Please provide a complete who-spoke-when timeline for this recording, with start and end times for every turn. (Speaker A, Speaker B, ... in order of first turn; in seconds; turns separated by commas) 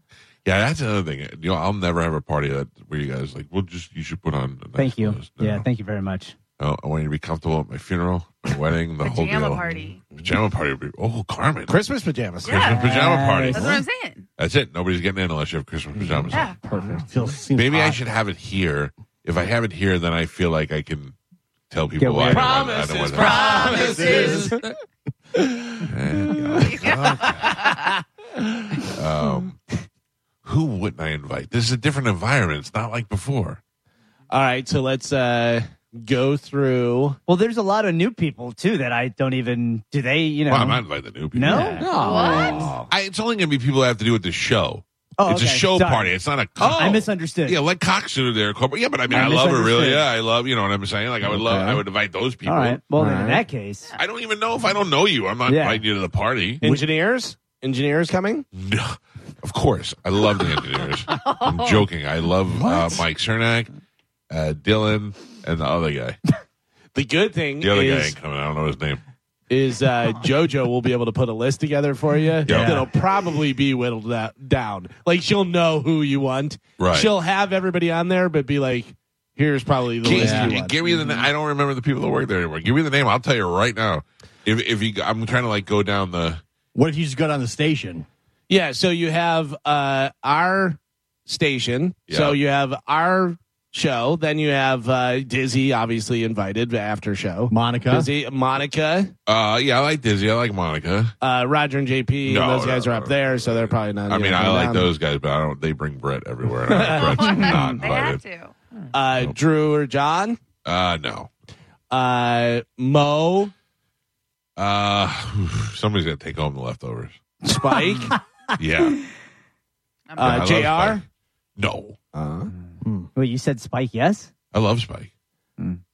Speaker A: 0.4-5.7, Speaker B: 4.8-6.3, Speaker A: 6.6-11.8, Speaker C: 9.0-10.0, Speaker D: 11.7-12.7, Speaker C: 12.4-13.0, Speaker A: 12.4-13.8, Speaker B: 12.8-13.8, Speaker C: 13.5-14.2, Speaker A: 14.4-16.5, Speaker D: 15.9-17.1, Speaker C: 16.3-16.6, Speaker E: 16.8-18.0, Speaker A: 17.5-21.1, Speaker A: 21.7-23.7, Speaker B: 22.0-22.6, Speaker D: 22.3-24.6, Speaker C: 23.1-24.5, Speaker E: 23.5-24.6, Speaker D: 25.4-25.9, Speaker A: 25.9-27.6, Speaker C: 26.6-27.9, Speaker A: 28.9-29.6, Speaker A: 30.4-33.6, Speaker D: 34.3-37.2, Speaker B: 37.3-40.8, Speaker A: 40.5-41.8, Speaker B: 41.3-42.9, Speaker E: 41.5-41.9, Speaker D: 41.8-42.8, Speaker C: 41.9-42.7, Speaker A: 42.3-52.8, Speaker B: 45.2-47.6, Speaker D: 46.6-47.0, Speaker B: 49.1-50.0, Speaker D: 51.3-51.8, Speaker B: 52.5-53.9, Speaker D: 53.0-53.4, Speaker A: 54.0-56.6, Speaker B: 55.5-55.8, Speaker D: 56.6-58.4, Speaker A: 58.5-63.7, Speaker C: 61.1-61.9, Speaker E: 62.5-63.0, Speaker A: 64.3-66.2, Speaker D: 66.9-68.2, Speaker A: 67.6-69.0, Speaker D: 69.5-81.2, Speaker E: 72.4-72.9, Speaker A: 72.5-72.9, Speaker A: 76.8-77.1, Speaker A: 80.0-86.4, Speaker E: 80.0-80.7, Speaker E: 86.7-88.0, Speaker D: 88.5-99.1, Speaker A: 92.1-92.4, Speaker E: 97.5-98.1, Speaker A: 99.3-101.1, Speaker D: 101.2-104.9, Speaker A: 102.2-108.2, Speaker D: 106.7-107.4, Speaker C: 107.0-108.5, Speaker D: 108.9-110.4, Speaker A: 110.6-111.3, Speaker D: 111.9-113.5, Speaker A: 114.5-117.1, Speaker D: 117.4-118.1, Speaker B: 117.5-118.0, Speaker A: 118.6-119.0, Speaker C: 120.1-120.5, Speaker A: 120.2-121.0, Speaker D: 120.2-121.0, Speaker A: 121.6-122.0, Speaker D: 122.1-122.5, Speaker E: 122.8-123.1, Speaker B: 123.1-124.3, Speaker A: 124.5-125.1